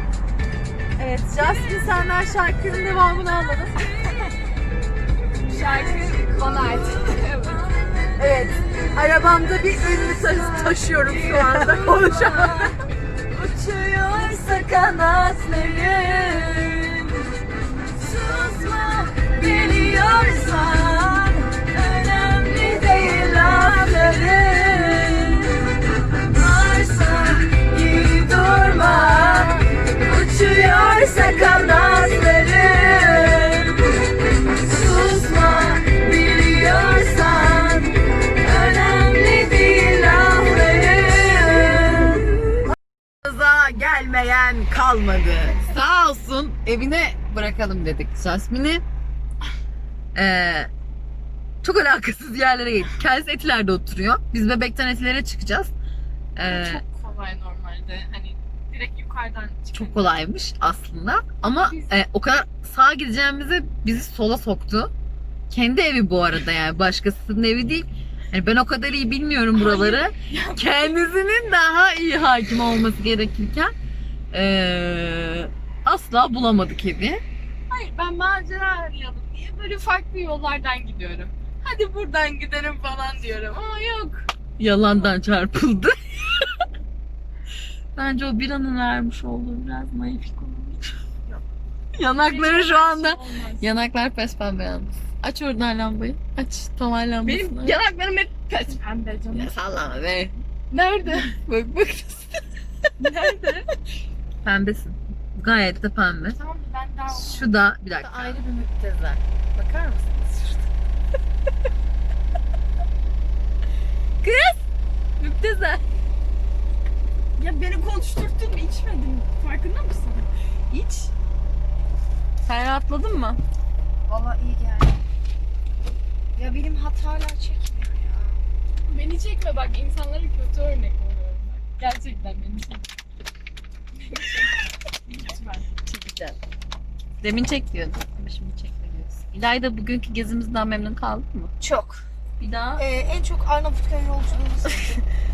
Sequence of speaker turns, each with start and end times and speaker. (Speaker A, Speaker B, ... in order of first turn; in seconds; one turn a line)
Speaker A: 1.0-3.9
Speaker B: 5.5-7.6
Speaker A: 8.2-12.8
Speaker B: 11.9-12.7
Speaker A: 13.4-17.2
Speaker A: 18.0-34.0
Speaker A: 34.5-42.6
Speaker A: 43.2-48.8
Speaker A: 50.1-50.7
Speaker A: 51.6-55.7
Speaker A: 56.4-56.8
Speaker B: 56.4-60.2
Speaker A: 59.7-64.9
Speaker B: 61.4-61.9
Speaker A: 65.5-73.7
Speaker B: 69.5-70.9
Speaker A: 74.3-77.2
Speaker B: 77.7-84.3
Speaker A: 84.6-86.4
Speaker A: 88.0-90.8
Speaker A: 92.0-97.8
Speaker B: 92.2-93.7
Speaker B: 97.2-97.7
Speaker C: 97.7-98.7
Speaker B: 98.5-99.5
Speaker A: 99.3-100.3
Speaker B: 100.7-101.4
Speaker A: 101.3-102.5
Speaker B: 103.0-103.8
Speaker A: 104.4-106.4
Speaker B: 106.3-107.5
Speaker A: 107.1-110.6
Speaker A: 114.2-114.7
Speaker A: 115.2-115.8
Speaker B: 117.4-121.1
Speaker A: 122.4-123.4
Speaker C: 124.1-125.0
Speaker C: 126.4-128.4
Speaker B: 128.9-132.9
Speaker B: 134.1-134.6
Speaker B: 135.1-135.7
Speaker A: 135.9-136.4
Speaker A: 137.2-141.5
Speaker C: 141.6-142.0
Speaker A: 142.4-142.9
Speaker C: 142.8-145.0